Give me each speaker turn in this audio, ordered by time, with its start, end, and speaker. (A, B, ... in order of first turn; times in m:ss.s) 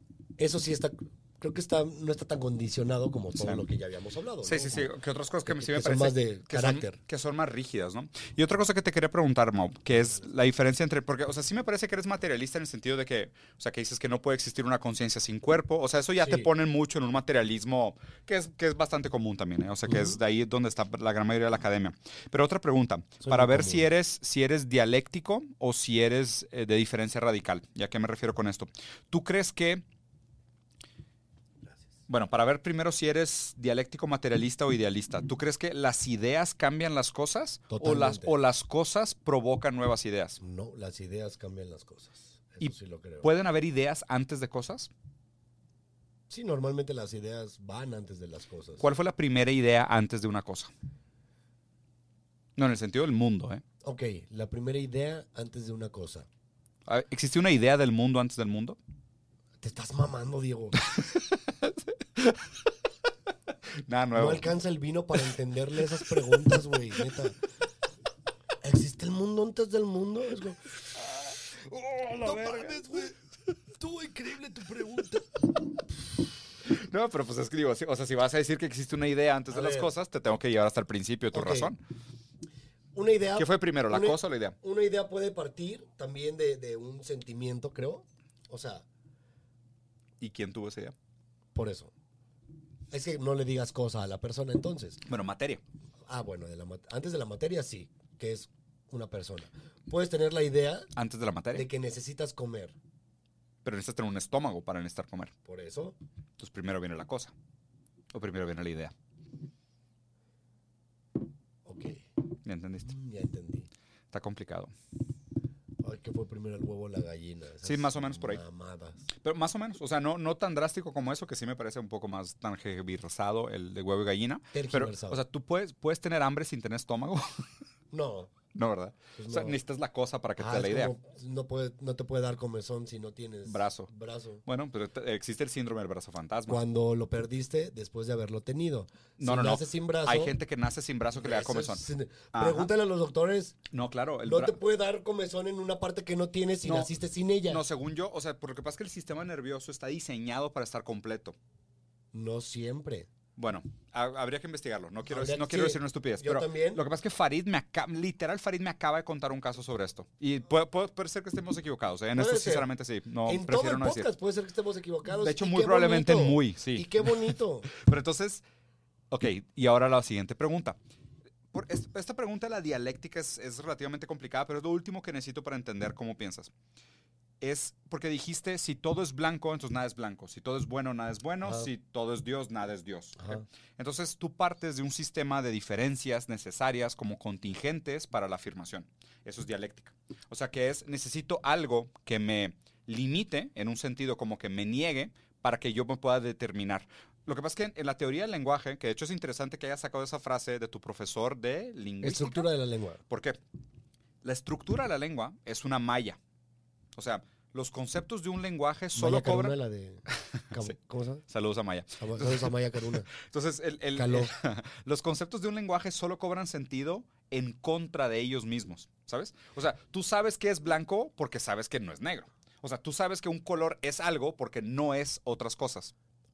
0:00.4-0:04.9 A
0:03.4-0:03.6 B
0:04.4-0:29.8 B
0:05.4-0:07.0 A
0:16.2-0:16.5 A
0:23.2-0:23.8 A
0:32.1-0:40.4 B
0:37.7-0:38.3 A
0:40.4-0:43.3 A
0:42.6-0:44.9 B
0:46.3-0:48.8 A
0:48.8-0:50.7 B
0:52.6-0:53.6 B
0:53.8-0:56.3 A
0:56.9-0:58.8 B
0:59.6-1:00.8 A
1:00.8-1:02.6 B
1:03.8-1:04.5 B
1:04.1-1:07.4 A
1:06.3-1:07.0 B
1:08.6-1:10.7 A
1:11.7-1:13.2 A
1:12.0-1:13.0 B
1:13.8-1:15.4 A
1:16.6-1:21.8 B
1:19.5-1:19.9 A
1:21.3-1:21.7 A
1:22.9-1:28.8 A
1:23.4-1:24.6 B
1:30.2-1:30.9 B
1:31.5-1:31.9 A
1:32.9-1:35.0 A
1:35.0-1:35.6 B
1:36.1-1:40.9 A
1:40.9-1:41.6 B
1:41.5-1:42.8 A
1:43.6-1:45.3 B
1:45.4-1:46.0 A
1:46.4-1:47.3 B
1:48.1-1:48.9 B
1:51.6-1:52.0 A
1:52.4-1:52.9 B
1:52.8-1:53.7 A
1:54.1-1:54.7 B
1:55.8-1:59.0 A
1:57.6-1:58.4 B
1:59.2-2:07.5 B
2:04.5-2:05.2 A
2:07.9-2:08.3 A
2:08.5-2:10.9 B
2:09.1-2:09.6 A
2:10.4-2:14.4 A
2:13.5-2:13.9 B
2:14.4-2:16.6 B
2:16.5-2:20.3 A
2:19.2-2:21.8 B
2:21.2-2:23.6 A
2:22.3-2:22.7 B
2:23.7-2:24.6 B
2:24.2-2:27.6 A
2:26.6-2:26.9 B
2:27.5-2:31.4 B
2:32.1-2:33.1 A
2:33.4-2:44.1 B
2:35.1-2:36.8 A
2:42.1-2:42.7 A
2:43.2-2:47.7 A
2:45.1-2:48.4 B
2:49.1-2:50.8 B
2:51.5-2:56.5 B
2:57.4-3:22.5 B
3:01.4-3:01.7 A
3:03.2-3:03.4 A
3:22.0-3:23.0 A
3:23.1-3:23.4 B
3:24.2-3:26.2 B
3:26.9-3:29.5 B
3:28.9-3:31.2 A
3:31.3-3:45.9 B
3:32.0-3:33.1 A
3:33.9-3:34.3 A